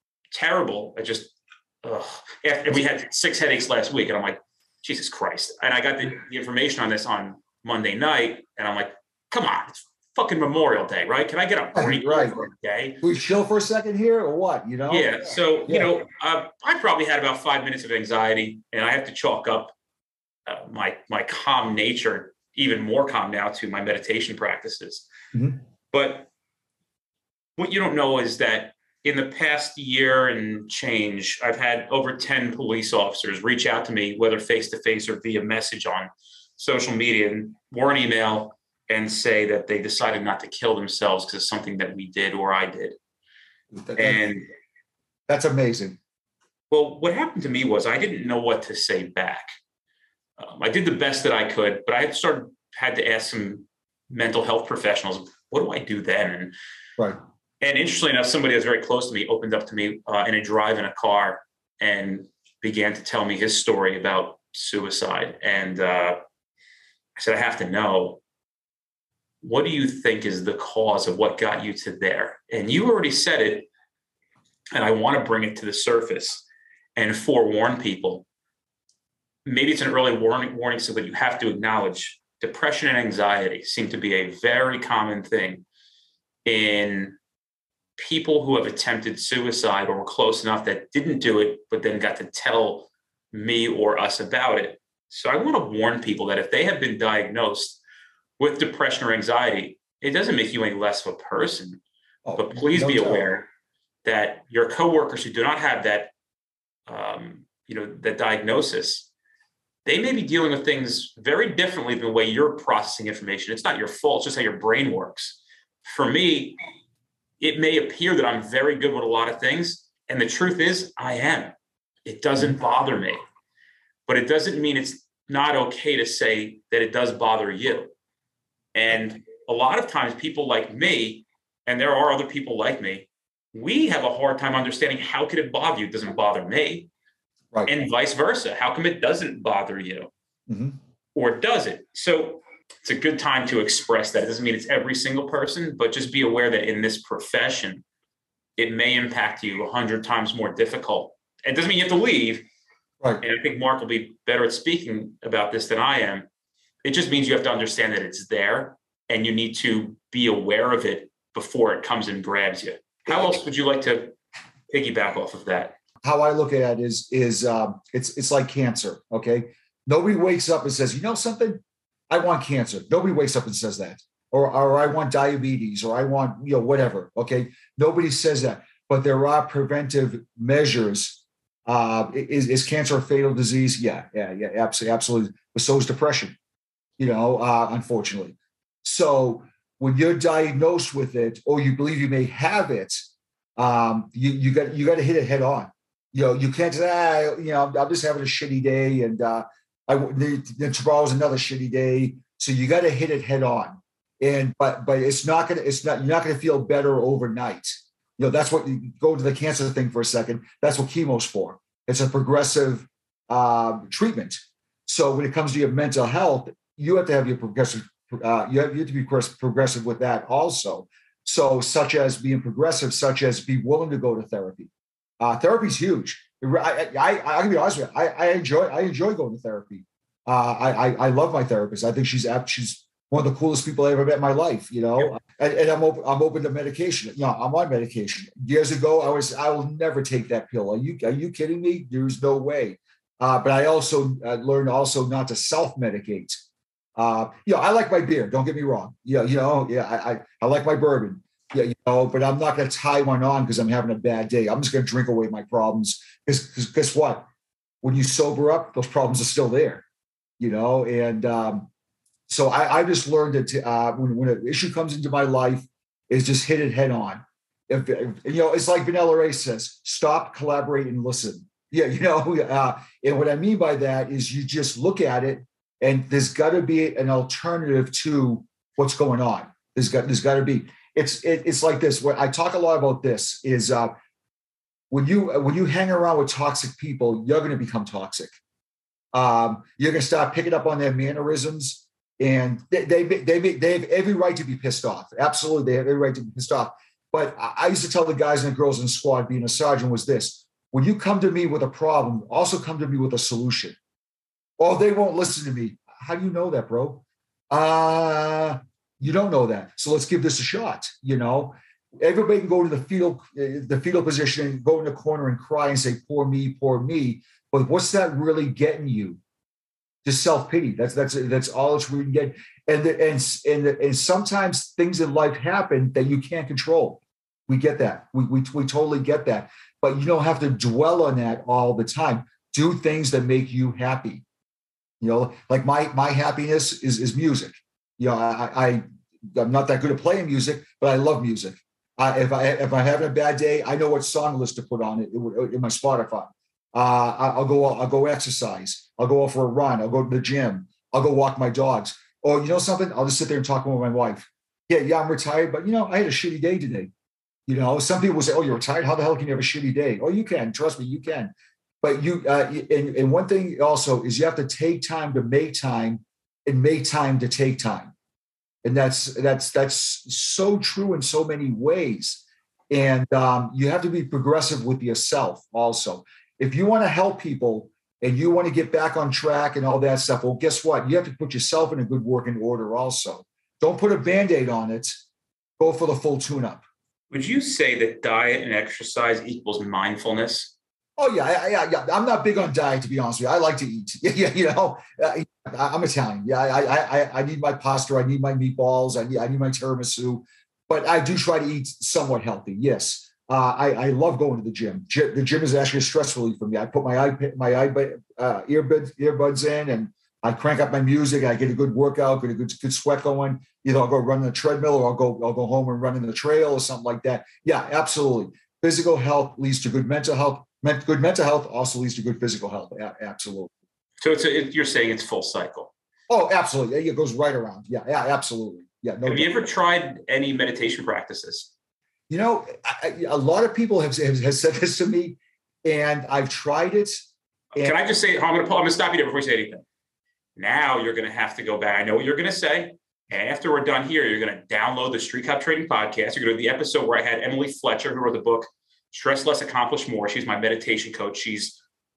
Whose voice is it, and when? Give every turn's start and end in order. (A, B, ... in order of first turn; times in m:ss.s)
0:00.3-0:13.0 A
0:11.7-0:12.4 B
0:13.0-0:15.9 B
0:14.9-0:19.7 A
0:20.4-0:25.1 A
0:25.9-0:26.3 A
0:27.6-0:43.0 A
0:43.7-0:44.2 B
0:43.9-0:44.5 A
0:45.3-0:46.0 B
0:46.7-0:49.5 A
0:50.4-0:56.5 A
0:57.6-1:06.2 A
1:07.2-1:08.2 A
1:09.4-1:13.7 A
1:14.7-1:16.4 A
1:17.0-1:18.2 A
1:19.4-1:25.6 A
1:26.4-1:27.2 A
1:28.0-1:37.8 A
1:38.4-1:41.8 A
1:42.2-1:43.3 B
1:42.4-1:43.5 A
1:44.0-1:46.1 A
1:46.9-1:49.1 A
1:49.8-1:56.6 A
1:57.4-2:01.5 A
2:02.0-2:03.2 A
2:04.1-2:07.9 A
2:08.7-2:16.9 A
2:17.7-2:20.1 A
2:20.5-2:20.8 B
2:21.1-2:27.8 A
2:28.6-2:32.4 A
2:33.2-2:36.2 A
2:36.8-2:44.1 A
2:44.7-2:45.8 A
2:46.0-3:06.4 B
3:07.0-4:06.4 B
4:07.0-4:17.2 B
4:17.8-4:19.8 B
4:20.4-4:21.7 B
4:22.3-4:43.9 B
4:44.9-4:48.3 B
4:49.1-5:03.8 B
5:04.6-5:19.2 B
5:20.0-5:34.2 B
5:35.0-5:56.9 B
5:57.5-6:07.9 B
6:08.6-6:25.0 B
6:25.6-6:26.6 B
6:27.1-6:30.5 A
6:31.0-7:03.5 B
7:04.0-7:05.7 A
7:06.1-7:09.4 B
7:09.0-7:11.5 A
7:12.1-7:17.8 B
7:17.6-7:19.6 A
7:20.4-7:31.6 A